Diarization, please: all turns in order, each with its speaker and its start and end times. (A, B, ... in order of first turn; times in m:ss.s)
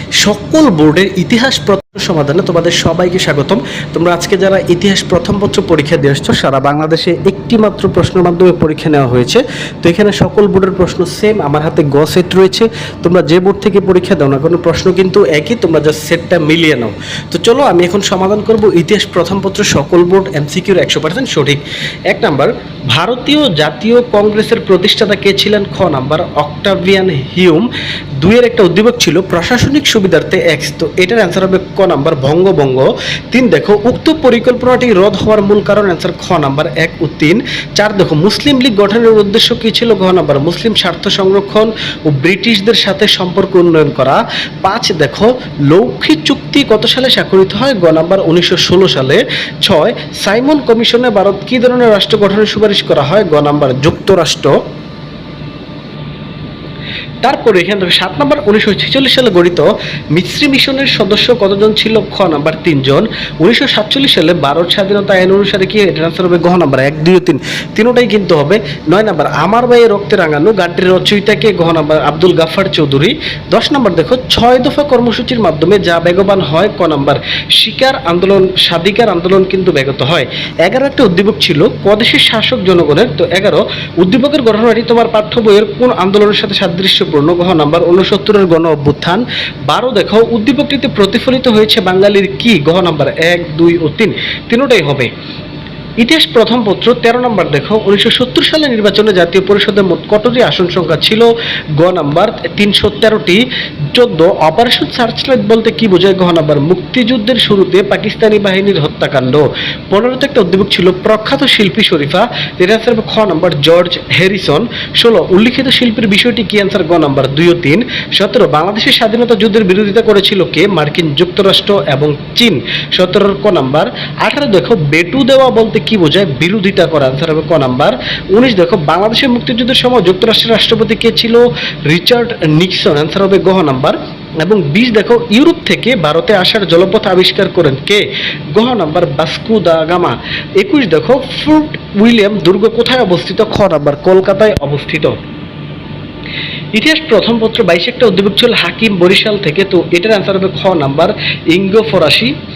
0:00.2-0:27.7 A
0:28.2-0:54.5 A
0:57.2-1:35.1 A
1:36.0-2:25.2 A
2:26.7-2:32.3 A